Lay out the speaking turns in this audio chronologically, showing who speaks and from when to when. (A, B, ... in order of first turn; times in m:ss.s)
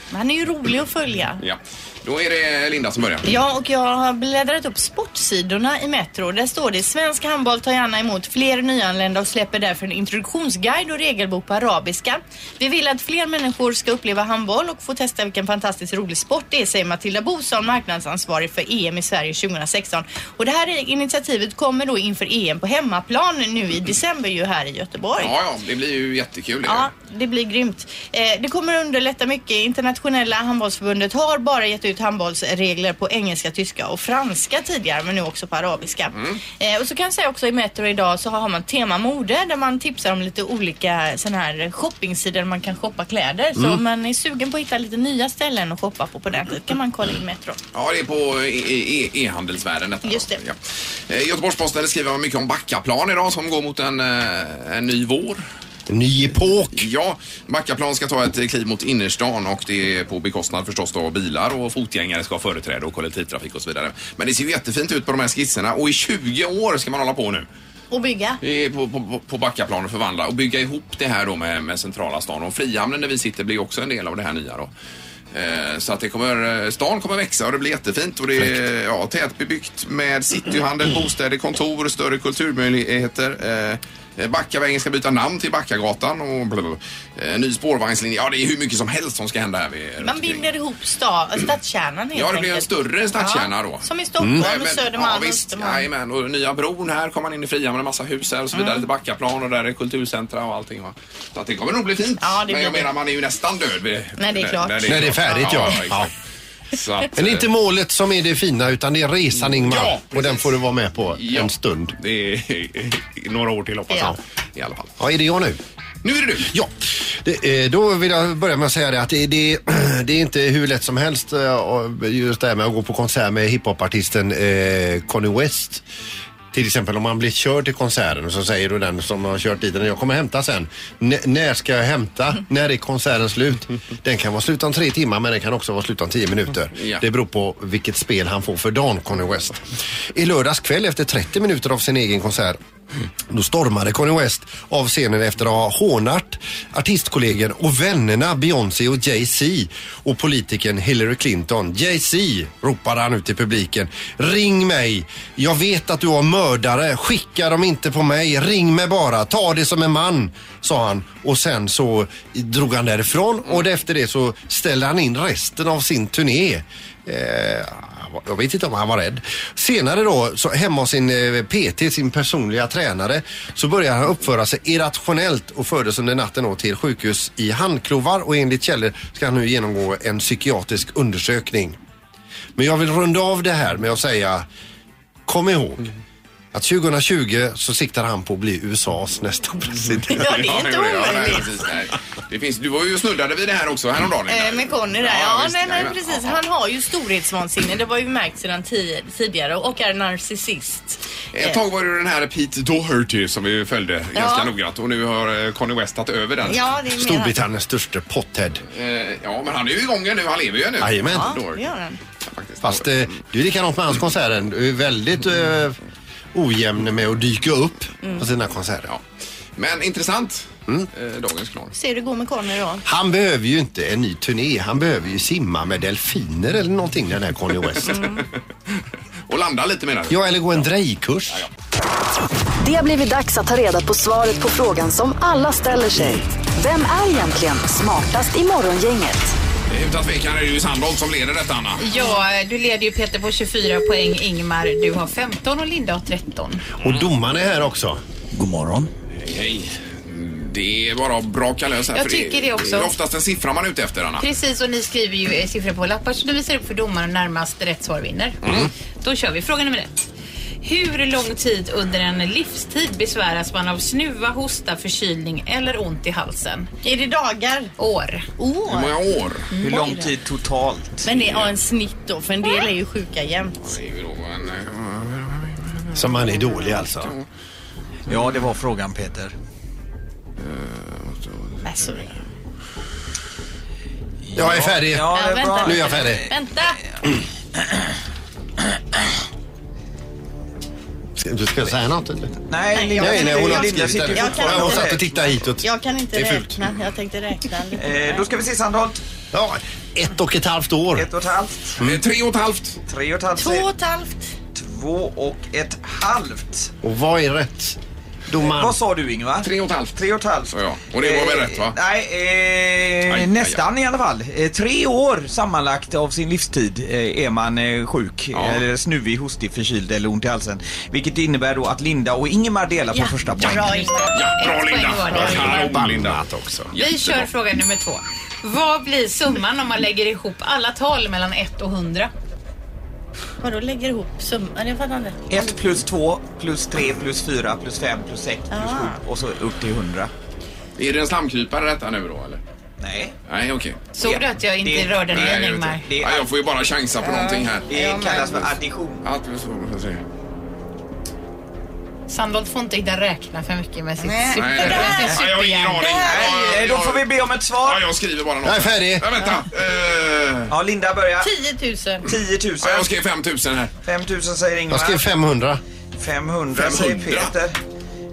0:00.1-0:01.4 A
0:01.4-0:03.2 B
0:03.2-0:25.3 A
0:25.2-0:26.9 B
0:26.6-0:47.6 A
0:36.1-0:36.4 B
0:47.7-0:50.6 B
0:50.0-0:50.4 A
0:51.1-0:55.4 B
0:55.9-0:56.9 C
0:56.7-1:07.5 B
1:07.9-1:08.4 A
1:08.4-1:14.7 B
1:15.3-1:30.4 B
1:30.0-1:35.9 A
1:32.1-1:46.0 B
1:34.2-1:34.5 C
1:38.5-1:38.8 A
1:42.2-1:42.9 A
1:44.2-1:45.7 A
1:44.8-1:46.1 C
1:46.7-1:47.5 B
1:47.1-1:52.0 C
1:49.5-1:50.5 B
1:51.1-1:54.9 B
1:55.0-1:55.6 C
1:56.0-1:56.5 B
1:56.4-2:05.8 C
2:06.5-2:22.6 C
2:16.8-2:17.0 B
2:23.3-3:01.8 C
3:02.6-3:04.5 C
3:05.3-3:05.9 C
3:06.5-3:10.5 C
3:10.1-3:11.6 A
3:10.4-3:16.4 B
3:14.3-3:21.6 A
3:21.3-3:26.6 B
3:24.1-3:24.5 A
3:26.5-3:27.4 A
3:27.0-3:28.6 C
3:28.7-3:31.6 B
3:30.8-3:31.4 C
3:31.1-3:32.0 A
3:32.3-3:32.9 B
3:32.6-3:35.8 C
3:36.3-3:38.9 C
3:39.6-3:41.7 B
3:41.7-3:42.8 A
3:42.8-3:48.0 C
3:47.9-3:48.2 A
3:49.3-3:50.7 B
3:50.1-3:51.4 C
3:52.6-3:59.3 D
3:59.7-4:01.8 B
4:01.8-4:06.6 E
4:06.8-4:08.0 C
4:08.4-4:08.9 F
4:09.2-4:14.2 B
4:11.9-4:12.9 E
4:14.2-4:20.1 E
4:18.4-4:18.7 B
4:20.6-4:26.7 E
4:26.8-4:27.7 A
4:27.8-4:28.2 E
4:28.4-4:29.0 A
4:28.7-4:29.5 B
4:29.5-4:30.1 E
4:29.6-4:31.1 F
4:29.7-4:30.0 A
4:31.0-4:33.6 A
4:31.1-4:31.5 B
4:33.6-4:35.6 B
4:36.0-4:37.1 C
4:38.1-4:39.3 F
4:40.5-4:40.9 B
4:41.6-4:42.0 A
4:44.2-4:46.3 F
4:44.4-4:46.2 C
4:45.1-4:46.8 A
4:51.2-4:52.3 C
4:52.5-4:55.1 F
4:52.7-4:55.0 A
4:53.0-4:56.6 C
4:55.6-4:58.2 A
4:57.8-4:59.0 F
4:59.3-5:01.1 C
5:01.0-5:01.8 F
5:01.8-5:02.8 B
5:02.9-5:03.7 F
5:03.4-5:04.4 A
5:04.5-5:06.7 F
5:06.8-5:07.8 C
5:08.3-5:08.8 C
5:08.5-5:23.8 F
5:09.4-5:10.0 B
5:10.5-5:11.8 B
5:13.1-5:13.6 B
5:18.3-5:18.6 B
5:22.9-5:24.3 A
5:23.7-5:25.8 E
5:24.1-5:27.3 B
5:25.1-5:26.7 C
5:26.8-5:32.1 E
5:33.4-5:35.4 A
5:35.3-5:40.1 F
5:38.5-5:39.0 A
5:40.8-5:42.4 B
5:42.8-5:43.1 F
5:43.3-5:43.8 B
5:44.0-5:45.9 E
5:44.0-5:46.3 F
5:45.1-5:47.7 B
5:47.0-5:48.5 A
5:47.7-5:49.0 F
5:49.0-5:50.0 B
5:52.1-5:55.9 E
5:54.0-5:55.2 A
5:54.4-5:57.0 B
5:55.8-5:56.3 A
5:55.9-5:57.8 F
5:57.6-6:00.5 B
5:58.4-5:59.1 C
6:00.5-6:01.3 F
6:01.2-6:02.1 A
6:02.0-6:02.9 F
6:02.6-6:03.7 B
6:03.8-6:05.0 F
6:04.7-6:05.6 C
6:06.0-6:07.6 F
6:06.5-6:07.3 B